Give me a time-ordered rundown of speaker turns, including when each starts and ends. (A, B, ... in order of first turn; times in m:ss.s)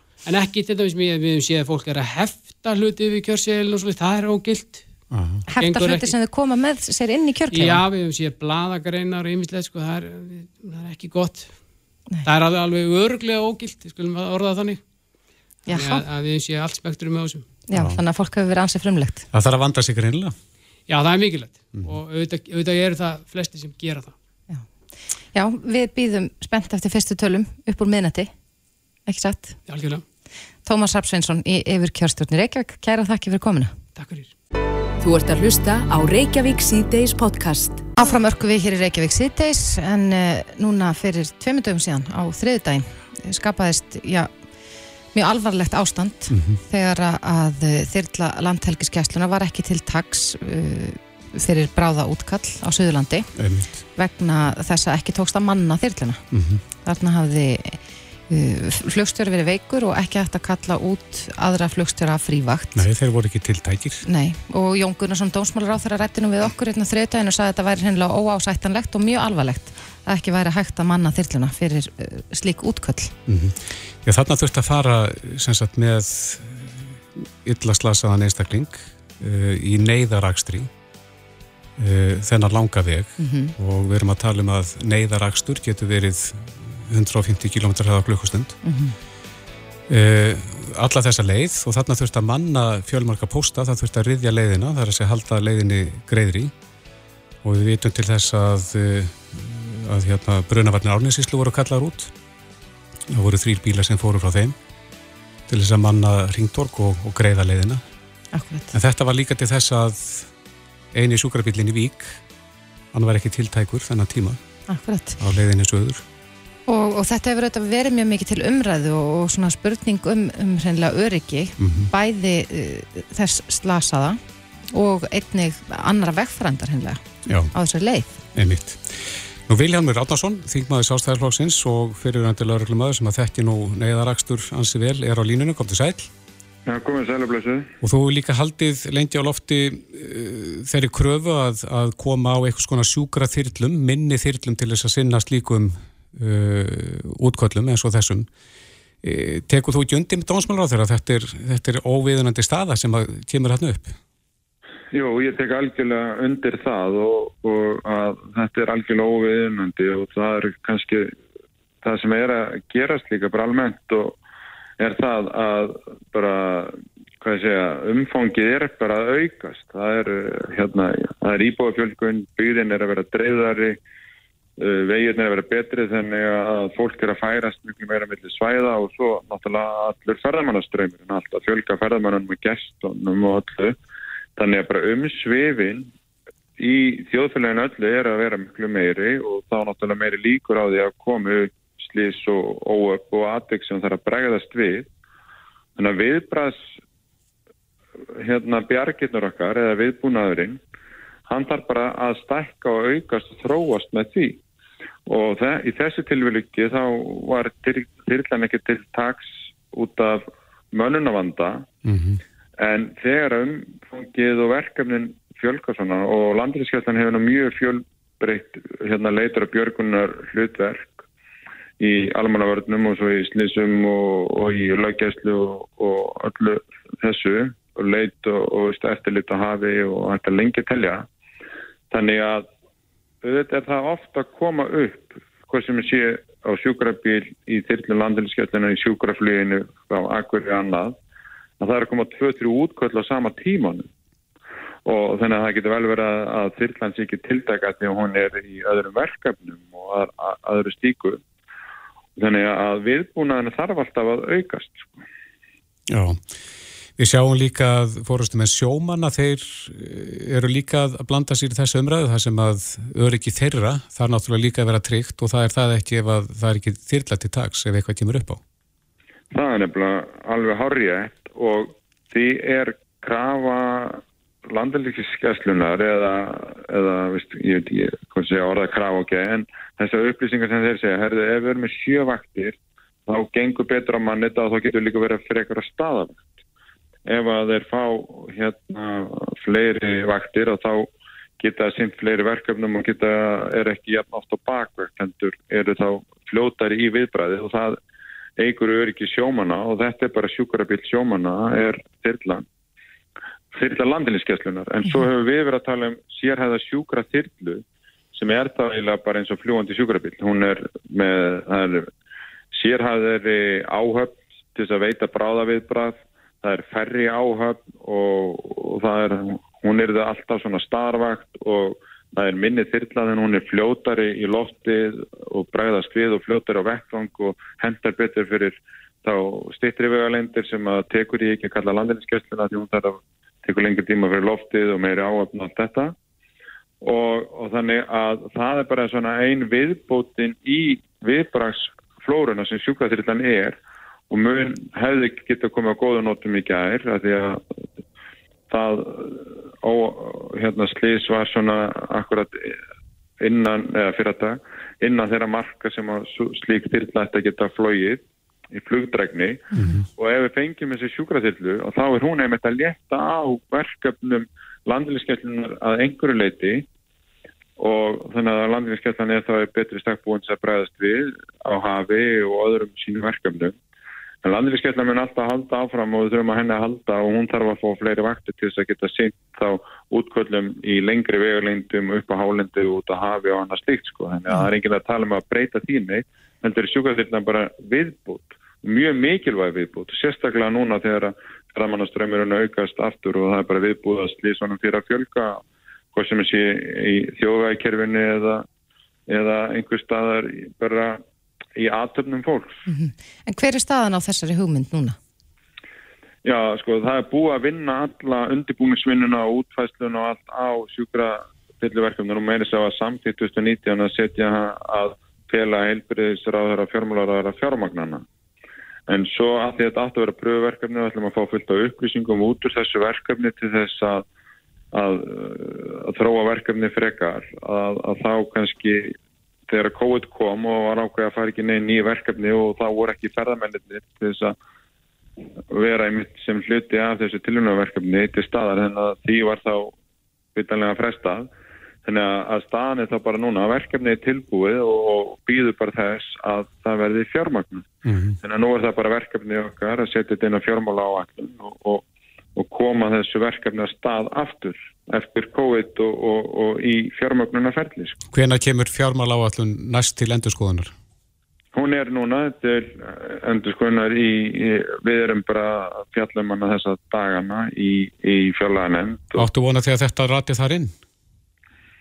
0:00.2-0:04.8 A
0:05.1-0:05.4 B
0:05.5-0:07.8 C
0:05.6-0:06.1 A
0:07.5-0:11.5 A
0:12.2-0:14.8 A
0:15.7-0:16.0 C
0:15.7-0:17.4 A
0:17.7-0:19.2 C
0:17.7-0:18.0 B
0:19.3-0:20.3 B
0:20.9-0:24.1 A
0:25.3-0:28.3 C
0:29.0-0:29.6 C
0:29.7-0:30.0 A
0:30.6-0:33.7 C
0:34.0-0:34.3 A
0:35.0-0:37.9 D
0:38.0-0:44.3 C
0:45.1-0:53.3 C
0:46.3-0:46.6 B
0:53.4-0:53.8 B
0:53.9-0:56.2 C
0:56.3-0:56.6 B
0:56.8-1:02.9 C
1:02.7-1:04.0 B
1:04.0-1:13.1 C
1:13.3-1:20.7 B
1:21.8-1:28.6 B
1:23.2-1:23.5 C
1:28.6-1:28.9 C
1:29.9-1:36.5 B
1:37.4-1:42.1 B
1:43.1-1:44.6 B
1:45.5-1:47.8 B
1:48.3-1:48.7 C
1:48.7-1:50.3 B
1:50.9-1:52.2 B
1:52.9-1:54.4 B
1:54.7-1:55.2 C
1:55.2-1:56.0 B
1:56.7-2:08.2 C
2:01.6-2:01.9 B
2:07.3-2:07.5 B
2:08.3-2:16.1 B
2:16.6-2:17.7 E
2:17.8-2:28.3 B
2:29.0-2:34.0 B
2:34.9-2:41.1 E
2:41.8-2:44.2 E
2:44.8-2:53.8 E
2:54.6-3:03.8 E
3:04.4-3:05.9 E
3:06.6-3:14.9 E
3:15.8-3:16.7 E
3:18.2-3:20.6 E
3:21.3-3:24.4 E
3:25.1-3:31.7 E
3:31.8-3:32.2 B
3:32.6-3:41.0 E
3:41.8-3:51.0 E
3:51.9-3:52.5 E
3:53.2-4:01.0 E
4:01.6-4:03.9 E
4:04.8-4:11.2 E
4:12.2-4:14.9 E
4:15.9-4:16.2 B
4:17.0-4:28.4 B
4:29.3-4:42.6 E
4:43.1-4:46.4 E
4:47.1-4:50.9 E
4:51.4-4:57.8 E
4:58.4-5:02.4 E
5:03.5-5:11.9 E
5:12.5-5:35.9 E
5:36.8-5:43.6 E
5:44.1-5:47.4 E
5:48.5-5:52.6 E
5:53.2-6:06.6 E
5:59.5-5:59.9 B
6:07.6-6:13.6 E
6:14.2-6:35.4 E
6:35.9-6:38.4 E
6:39.1-6:41.0 E
6:41.6-6:42.6 E
6:42.7-6:45.0 C
6:46.2-6:58.0 E
6:58.9-7:04.0 E
7:04.7-7:08.9 E
7:09.5-7:14.3 E
7:15.5-7:19.7 E
7:20.3-7:21.3 E
7:21.8-7:27.7 E
7:27.8-7:28.2 B
7:28.2-7:31.8 E
7:32.4-7:38.0 E
7:38.1-7:40.7 B
7:41.5-7:49.2 E
7:49.2-7:50.7 B